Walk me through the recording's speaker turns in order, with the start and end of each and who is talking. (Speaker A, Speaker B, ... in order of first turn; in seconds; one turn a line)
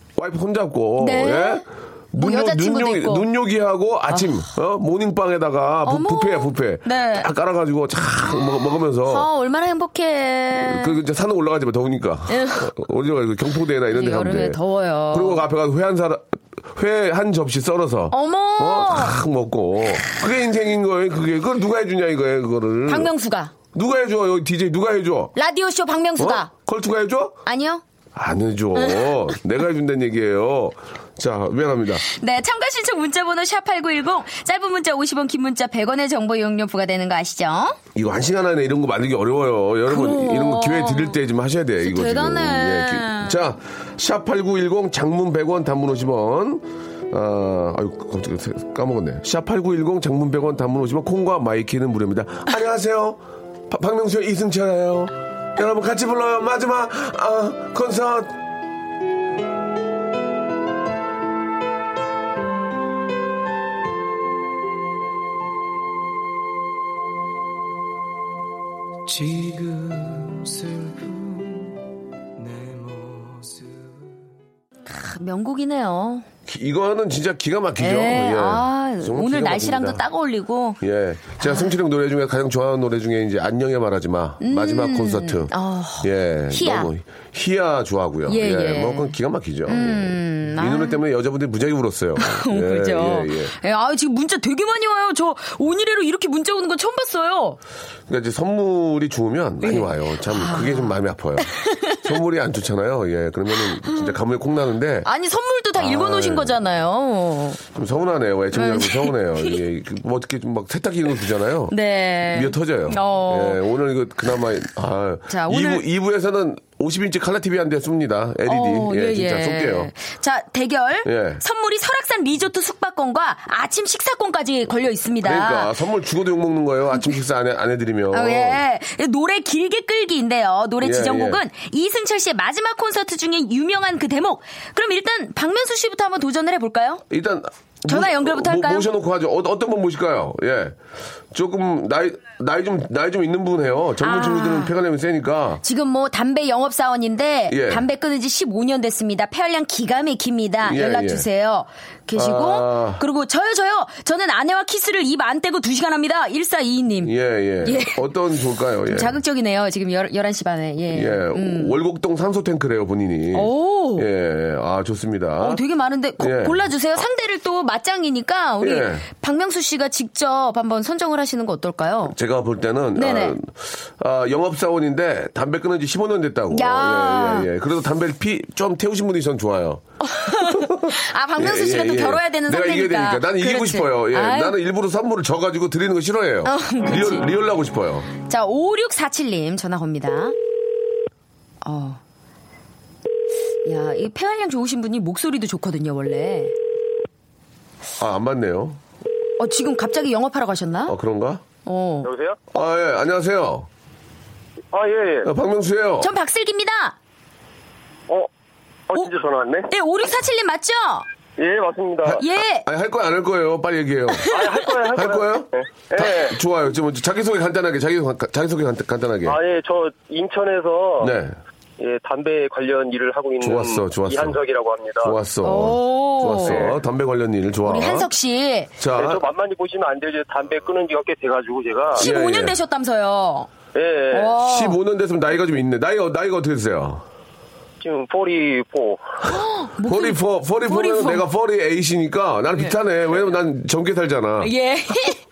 Speaker A: 0.2-9.3
Speaker B: 1.0-1.6
Speaker B: 2.2-3.3
Speaker B: 5.8-7.3
Speaker B: 9.0-11.0
Speaker A: 10.6-14.6
Speaker B: 12.3-12.7
Speaker B: 13.9-15.5
Speaker A: 15.1-23.1
Speaker B: 18.1-19.2
Speaker B: 22.9-23.5
Speaker A: 23.7-25.4
Speaker B: 25.4-26.5
Speaker A: 26.2-27.4
Speaker B: 27.5-27.8
Speaker A: 28.1-32.0
Speaker B: 28.8-29.1
Speaker B: 32.0-37.8
Speaker A: 38.0-58.4
Speaker B: 39.9-41.2
Speaker B: 41.8-43.4
Speaker C: 69.1-71.5
Speaker C: 72.4-73.5
Speaker B: 74.9-76.3
Speaker A: 76.5-80.0
Speaker B: 77.8-80.8
Speaker A: 80.8-93.5
Speaker B: 81.4-81.7
Speaker B: 84.4-86.9
Speaker B: 88.3-89.2
Speaker B: 89.7-91.0
Speaker B: 92.2-97.6
Speaker A: 98.1-105.1
Speaker B: 99.6-102.0
Speaker B: 103.8-104.1
Speaker B: 105.0-107.6
Speaker A: 105.8-106.6
Speaker A: 107.7-111.8
Speaker B: 108.5-109.6
Speaker B: 111.7-113.6
Speaker A: 112.3-119.9
Speaker B: 115.3-115.8
Speaker B: 118.5-125.7
Speaker A: 121.0-121.4
Speaker A: 125.2-128.6
Speaker B: 128.1-137.0
Speaker A: 130.8-131.4
Speaker A: 137.1-140.8
Speaker B: 137.9-138.9
Speaker A: 141.3-145.6
Speaker B: 144.0-144.8
Speaker B: 145.6-158.0
Speaker A: 147.5-147.8
Speaker A: 150.6-151.3
Speaker A: 152.2-153.0
Speaker A: 157.0-159.2
Speaker B: 158.8-161.8
Speaker A: 160.9-165.6
Speaker B: 163.3-164.1
Speaker B: 165.4-172.2
Speaker A: 166.2-166.7
Speaker A: 168.6-169.1
Speaker A: 172.1-188.1
Speaker B: 173.0-173.4
Speaker B: 176.5-177.5
Speaker B: 180.0-184.6
Speaker B: 186.4-187.3
Speaker B: 188.2-190.4
Speaker B: 191.6-192.0
Speaker B: 193.7-196.5
Speaker A: 198.0-198.8
Speaker B: 199.4-201.0
Speaker A: 200.9-201.4
Speaker B: 201.7-202.1
Speaker D: 202.0-202.4
Speaker A: 202.5-203.7
Speaker D: 204.7-205.3
Speaker A: 205.2-206.1
Speaker B: 206.0-207.0
Speaker D: 208.9-209.7
Speaker B: 209.7-211.1
Speaker D: 211.4-212.2
Speaker A: 212.0-219.4
Speaker B: 212.2-212.7
Speaker D: 214.3-216.4
Speaker D: 219.2-221.2
Speaker A: 221.0-221.4
Speaker D: 221.8-225.2
Speaker A: 223.4-224.4
Speaker A: 225.0-228.1
Speaker B: 225.4-226.6
Speaker D: 226.4-226.8
Speaker B: 227.7-228.7
Speaker A: 228.8-229.2
Speaker D: 229.0-232.1
Speaker A: 231.9-232.6
Speaker B: 232.0-233.5
Speaker D: 233.8-234.4
Speaker B: 234.1-234.8
Speaker A: 234.4-237.0
Speaker D: 237.8-239.1
Speaker B: 239.2-241.3
Speaker A: 239.8-244.5
Speaker B: 244.4-245.2